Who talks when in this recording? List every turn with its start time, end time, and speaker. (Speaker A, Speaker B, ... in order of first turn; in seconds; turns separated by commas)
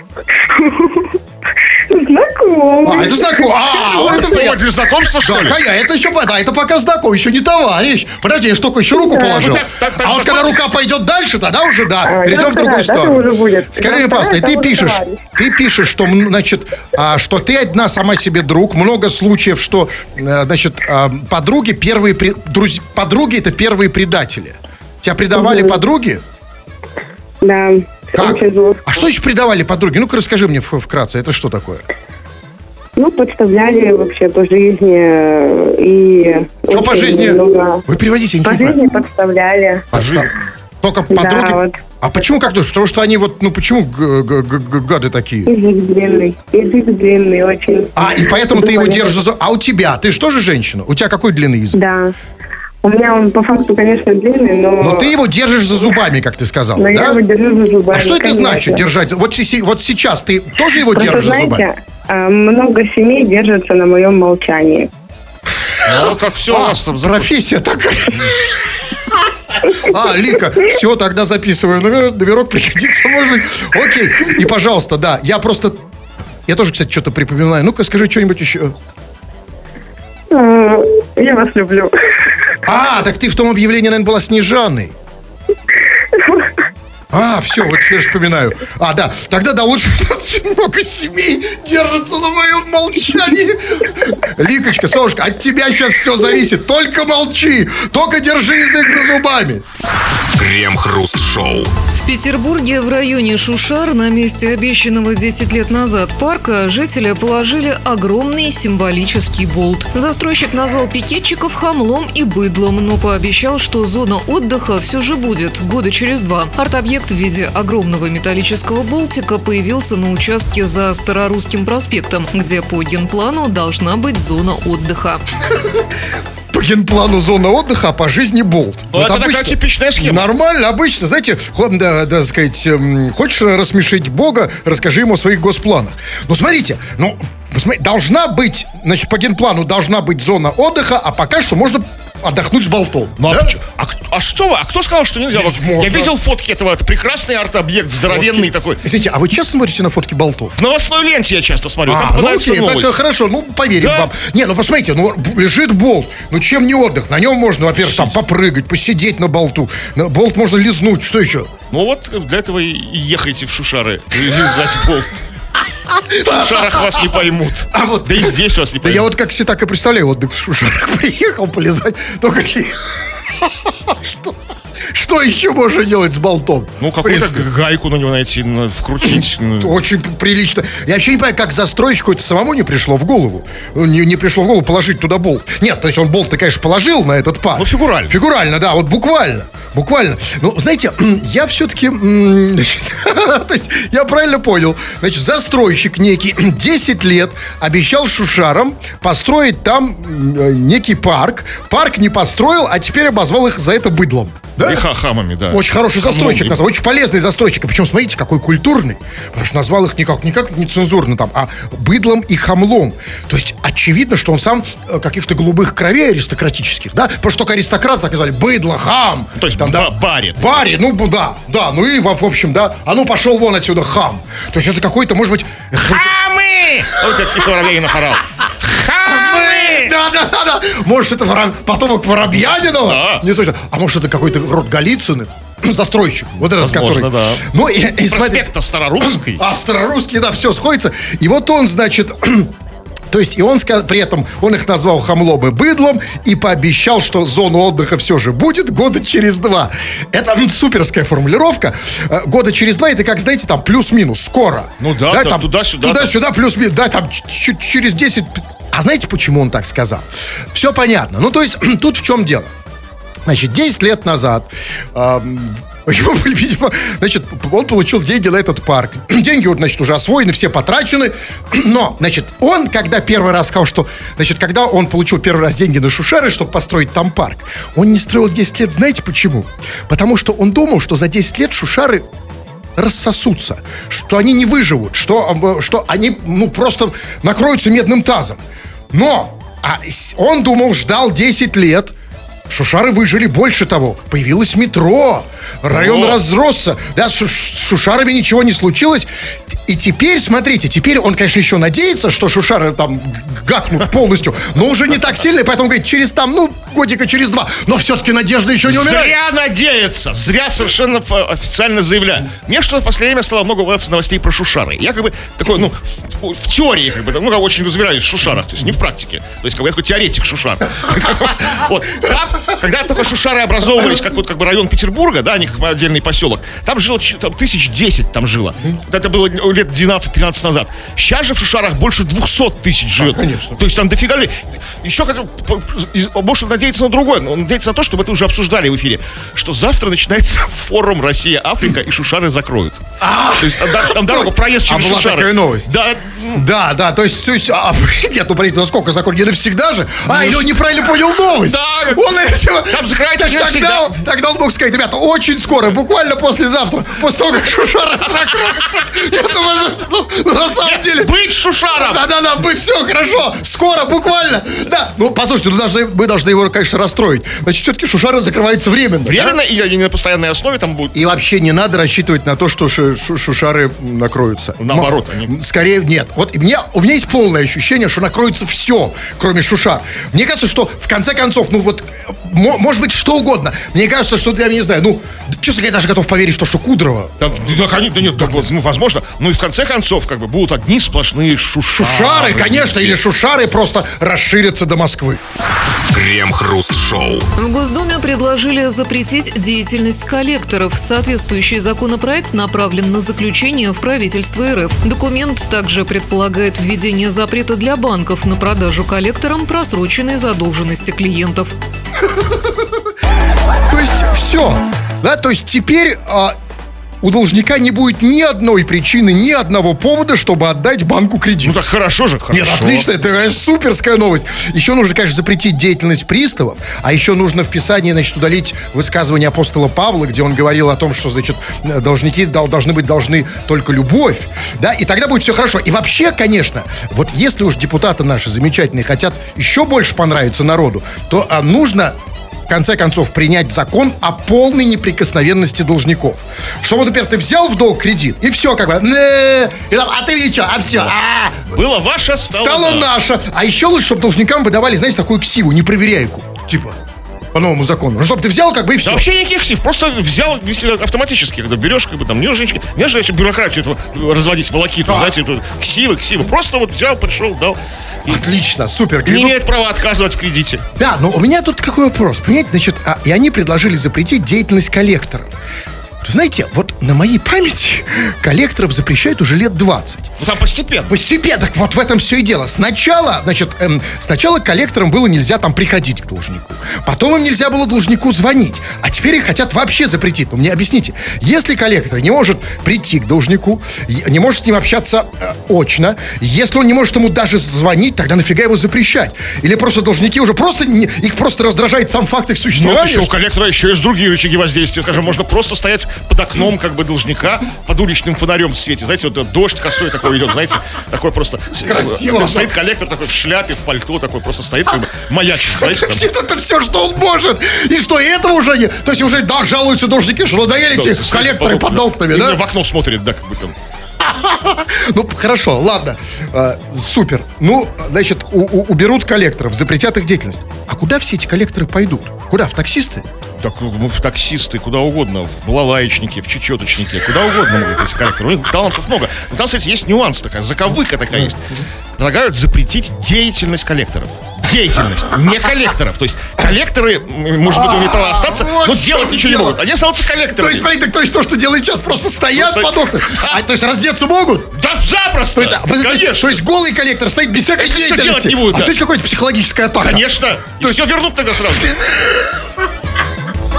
Speaker A: 0.6-1.1, Speaker A: 1.9-3.5, Speaker B: 2.8-4.6, Speaker C: 3.8-5.6, Speaker B: 5.2-26.2, Speaker A: 9.0-9.6, Speaker C: 9.2-10.6, Speaker A: 12.1-15.2, Speaker A: 25.4-25.8, Speaker A: 27.4-29.0, Speaker B: 28.1-31.8, Speaker A: 33.0-37.8, Speaker B: 36.7-38.8, Speaker A: 38.4-39.9, Speaker C: 39.9-40.3, Speaker B: 39.9-40.3, Speaker B: 40.8-45.5, Speaker A: 41.1-41.8, Speaker A: 45.5-49.2, Speaker B: 48.0-51.8, Speaker A: 51.8-52.1, Speaker A: 52.8-55.1, Speaker B: 54.8-57.2, Speaker A: 56.8-58.8, Speaker B: 57.9-61.7, Speaker A: 60.9-64.9, Speaker C: 65.8-67.3, Speaker B: 65.9-68.6, Speaker B: 69.6-75.8, Speaker B: 76.5-78.7, Speaker A: 80.3-81.9, Speaker B: 82.7-84.9, Speaker A: 86.2-86.5, Speaker B: 87.1-99.6, Speaker D: 100.0-101.7, Speaker E: 102.0-125.2, Speaker B: 126.5-143.5, Speaker C: 128.9-130.3, Speaker C: 143.2-148.8, Speaker B: 145.3-146.1, Speaker B: 148.1-150.6, Speaker C: 150.6-152.9, Speaker B: 151.9-161.5, Speaker C: 153.8-154.1, Speaker C: 157.8-158.2, Speaker C: 161.7-165.2, Speaker B: 165.9-167.0, Speaker C: 166.2-169.1, Speaker B: 167.7-174.4, Speaker B: 174.9-177.5, Speaker C: 176.8-179.8, Speaker B: 179.6-204.8, Speaker C: 187.6-188.2, Speaker C: 204.6-206.6, Speaker B: 205.5-226.1, Speaker C: 219.4-220.7, Speaker C: 225.8-229.9, Speaker B: 229.1-242.5, Speaker C: 232.4-233.2, Speaker C: 236.5-237.4, Speaker C: 238.1-239.4, Speaker B: 243.1-262.5, Speaker C: 254.8-256.1, Speaker B: 263.3-282.1, Speaker B: 282.8-291.9, Speaker B: 292.5-299.1, Speaker C: 295.7-296.2, Speaker B: 299.7-309.2, Speaker C: 308.6-342.8, Speaker B: 333.0-333.6, Speaker B: 343.0-345.8, Speaker C: 343.4-346.4, Speaker B: 346.3-361.1, Speaker C: 350.1-350.6, Speaker C: 351.3-352.1, Speaker C: 352.6-353.9, Speaker C: 360.6-362.0, Speaker B: 361.8-369.4, Speaker C: 369.1-370.9, Speaker B: 370.9-387.4, Speaker C: 374.6-375.3, Speaker C: 387.2-393.0, Speaker B: 391.7-395.2, Speaker D: 395.6-397.3, Speaker E: 397.4-411.5, Speaker B: 413.6-416.4, Speaker B: 417.0-421.6, Speaker C: 421.4-422.9, Speaker B: 422.3-441.9, Speaker B: 442.5-451.6, Speaker C: 450.9-452.9, Speaker B: 452.3-456.8, Speaker B: 457.3-459.1, Speaker C: 458.8-468.2, Speaker B: 464.9-465.2, Speaker B: 468.1-469.4, Speaker C: 469.1-470.6, Speaker B: 470.8-475.4, Speaker B: 476.0-480.1, Speaker C: 480.2-480.9, Speaker B: 480.9-503.1, Speaker C: 502.6-516.1, Speaker B: 511.6-512.5, Speaker B: 515.3-522.4, Speaker C: 520.7-523.5, Speaker B: 524.0-533.1, Speaker C: 533.4-550.7, Speaker B: 547.5-549.6, Speaker B: 550.4-554.5, Speaker C: 552.4-553.4, Speaker C: 554.6-556.4, Speaker B: 555.4-560.1, Speaker C: 557.6-558.8, Speaker C: 559.8-561.8, Speaker B: 561.7-562.2